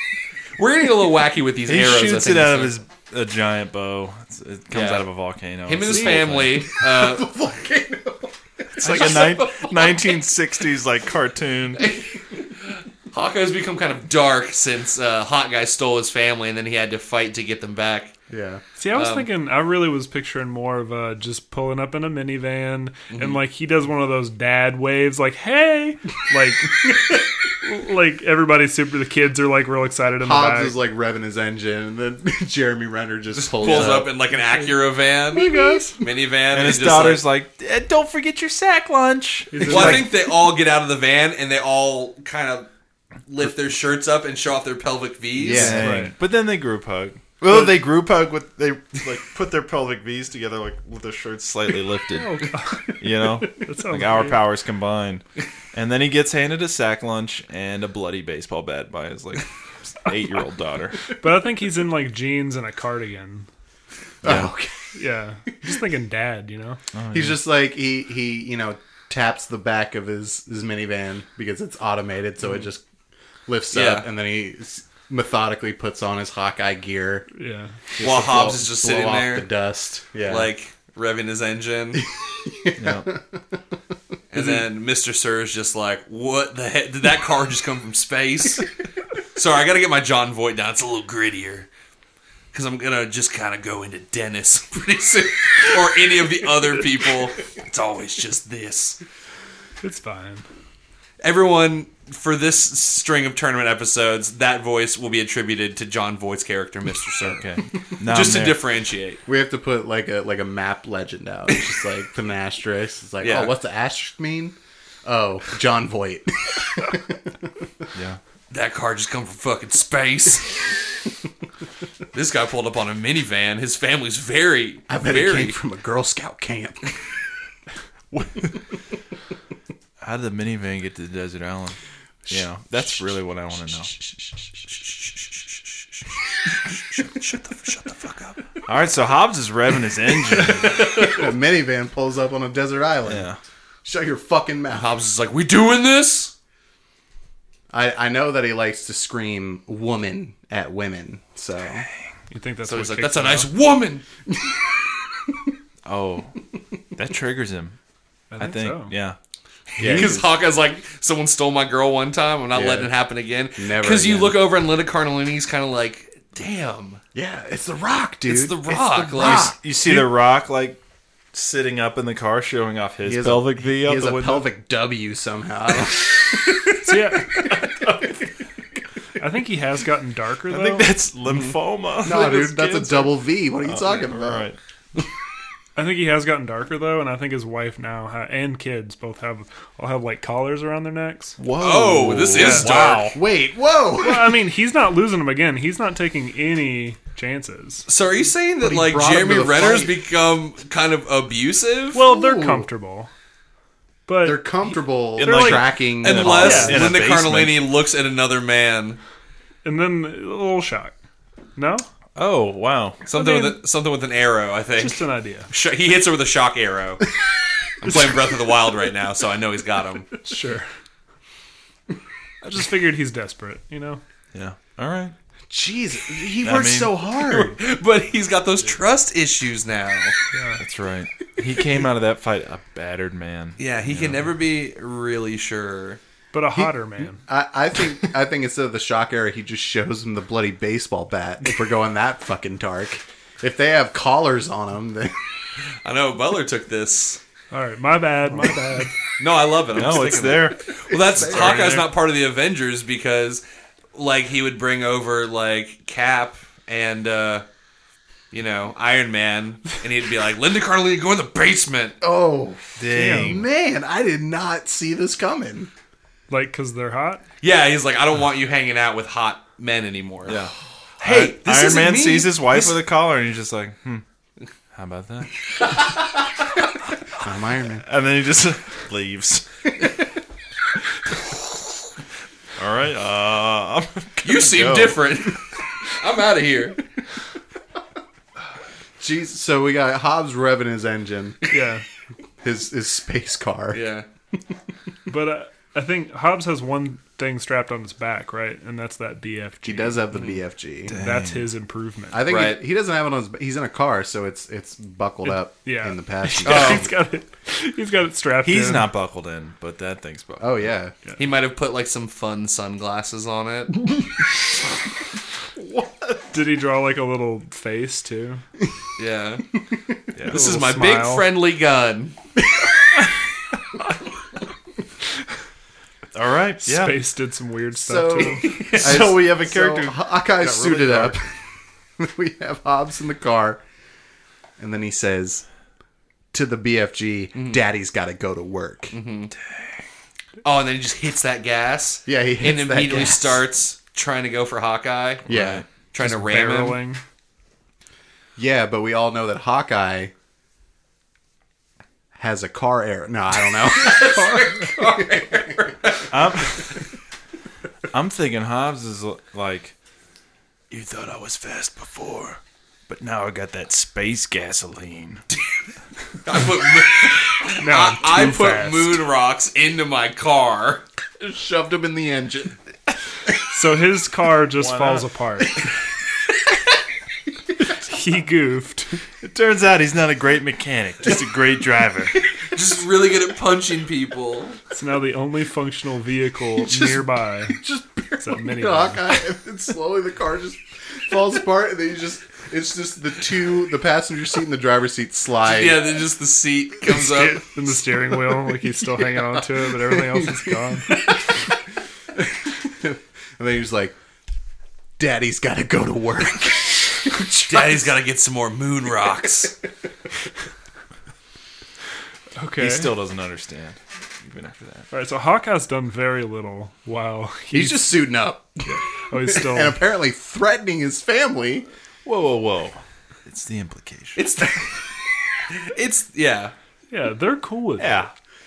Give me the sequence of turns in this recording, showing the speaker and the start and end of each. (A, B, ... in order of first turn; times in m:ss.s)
0:00.6-0:02.8 A
0:01.7-0:06.6 B
0:04.7-0:05.1 A
0:05.7-0:07.3 A
0:06.8-0:09.1 C
0:08.8-0:10.1 A
0:08.8-0:11.9 B
0:11.8-0:18.2 A
0:18.3-0:18.6 C
0:18.8-0:30.8 D
0:18.9-0:19.3 A
0:23.1-0:23.4 A
0:30.2-0:34.1 C
0:33.3-0:37.2 A
0:35.4-0:36.0 C
0:35.4-0:35.8 D
0:36.5-0:40.0 B
0:39.5-0:40.1 D
0:39.6-0:42.7 A
0:43.3-0:45.7 A
0:45.4-0:46.1 C
0:45.5-1:01.1 B
0:45.6-0:46.1 D
0:52.2-0:54.4 D
1:01.1-1:03.5 D
1:04.2-1:05.0 C
1:04.2-1:04.5 B
1:04.9-1:06.8 D
1:07.0-1:07.4 B
1:07.1-1:12.8 C
1:13.5-1:17.3 C
1:13.7-1:14.1 A
1:17.4-1:17.7 D
1:18.0-1:20.5 C
1:18.0-1:19.5 A
1:20.3-1:22.0 A
1:22.3-1:23.2 C
1:22.8-1:23.1 B
1:24.3-1:28.7 A
1:29.4-1:31.7 A
1:32.5-1:39.0 A
1:39.8-1:40.4 D
1:41.2-1:47.4 A
1:47.2-1:48.6 B
1:48.1-1:49.2 A
1:49.3-1:57.6 C
1:53.2-1:53.6 A
1:57.9-1:58.2 B
1:58.5-2:00.7 A
2:02.1-2:05.6 A
2:04.9-2:07.0 C
2:10.0-2:11.8 B
2:12.3-2:13.9 B
2:16.7-2:18.4 A
2:18.7-2:21.0 B
2:20.6-2:21.2 A
2:21.0-2:23.3 C
2:23.1-2:23.4 B
2:23.8-2:24.9 C
2:24.7-2:26.3 A
2:27.7-2:31.9 C
2:32.3-2:33.5 D
2:32.7-2:34.0 A
2:34.3-2:34.6 C
2:35.8-2:36.4 B
2:37.0-2:37.8 B
2:38.3-2:38.9 D
2:38.4-2:39.2 B
2:39.8-2:40.3 C
2:39.8-2:40.1 B
2:39.8-2:40.1 D
2:39.9-2:47.0 A
2:42.5-2:42.9 C
2:43.6-2:44.4 C
2:47.1-2:50.0 C
2:48.3-2:49.5 A
2:49.2-2:50.8 B
2:51.3-2:54.5 B
2:53.0-2:58.0 C
2:56.8-2:57.5 D
2:59.2-3:01.0 D
3:00.5-3:04.6 B
3:02.0-3:04.5 C
3:05.8-3:11.4 D
3:11.4-3:13.2 B
3:11.6-3:13.2 A
3:12.4-3:12.7 D
3:12.7-3:14.4 C
3:14.0-3:17.9 D
3:17.9-3:22.0 A
3:18.6-3:19.9 C
3:21.9-3:23.1 D
3:22.0-3:22.7 C
3:24.1-3:24.6 D
3:24.2-3:26.8 C
3:25.2-3:27.6 B
3:25.2-3:25.6 D
3:26.0-3:29.0 A
3:26.3-3:26.9 D
3:29.6-3:30.9 D
3:31.6-3:31.9 D
3:32.2-3:33.0 B
3:33.1-3:37.0 A
3:33.1-3:33.6 D
3:34.8-3:35.5 D
3:37.8-3:40.1 A
3:40.2-3:40.7 D
3:42.4-3:44.0 D
3:44.3-3:45.1 B
3:45.5-3:47.6 C
3:46.4-3:46.9 B
3:47.2-3:50.2 A
3:50.3-3:50.6 D
3:50.6-3:54.3 B
3:53.6-3:56.0 A
3:56.3-3:57.2 D
3:57.3-4:05.2 C
4:05.8-4:07.2 A
4:07.5-4:08.9 D
4:08.4-4:08.8 C
4:09.2-4:13.4 A
4:09.7-4:11.9 B
4:11.2-4:11.7 C
4:13.9-4:17.5 A
4:18.3-4:22.0 A
4:22.0-4:25.7 C
4:22.8-4:23.4 B
4:22.9-4:23.4 D
4:26.3-4:27.2 D
4:27.4-4:30.4 A
4:30.3-4:34.0 B
4:31.0-4:32.7 A
4:34.7-4:35.3 B
4:37.2-4:37.8 C
4:37.8-4:39.5 B
4:42.6-4:45.1 B
4:44.2-4:46.8 A
4:49.0-4:51.4 C
4:51.5-4:51.8 D
4:52.4-4:53.8 C
4:53.7-4:54.1 A
4:55.1-5:00.0 D
4:59.6-5:01.0 C
5:00.1-5:00.4 A
5:00.9-5:01.5 B
5:00.9-5:02.2 D
5:02.1-5:06.9 C
5:02.3-5:02.6 A
5:05.6-5:08.9 D
5:06.4-5:06.9 B
5:08.4-5:10.7 B
5:10.4-5:10.9 C
5:11.2-5:13.8 A
5:16.3-5:18.4 D
5:19.0-5:19.4 A
5:20.2-5:20.4 B
5:20.3-5:21.3 D
5:20.3-5:22.2 A
5:26.1-5:27.0 B
5:26.6-5:28.6 D
5:27.8-5:31.3 C
5:28.2-5:29.1 A
5:28.8-5:31.2 B
5:32.0-5:33.6 C
5:34.6-5:35.4 C
5:36.3-5:38.9 C
5:37.4-5:37.6 A
5:38.9-5:39.3 A
5:40.4-5:46.8 A
5:42.1-5:43.4 C
5:45.3-5:45.6 B
5:45.3-5:45.6 C
5:46.0-5:47.0 D
5:48.4-5:50.1 C
5:52.2-5:55.1 C
5:53.7-5:56.6 A
5:56.1-5:56.8 B
5:57.9-5:59.8 B
6:00.7-6:05.2 B
6:06.2-6:10.8 A
6:07.6-6:09.0 D
6:11.2-6:12.6 C
6:13.4-6:15.7 D
6:14.6-6:15.0 B
6:17.6-6:19.0 D
6:19.2-6:22.2 B
6:22.5-6:24.6 A
6:24.7-6:27.6 D
6:26.6-6:35.9 C
6:28.2-6:29.2 D
6:35.4-6:37.4 A
6:37.0-6:41.2 D
6:42.2-6:44.0 C
6:45.0-6:47.9 C
6:47.5-6:49.6 A
6:52.4-6:52.9 D
6:52.6-6:54.9 B
6:54.9-6:57.9 D
6:57.5-7:01.7 C
6:58.7-6:59.8 D
7:02.0-7:04.2 B
7:04.2-7:04.6 A
7:05.5-7:06.5 A
7:06.9-7:08.1 D
7:07.8-7:08.1 B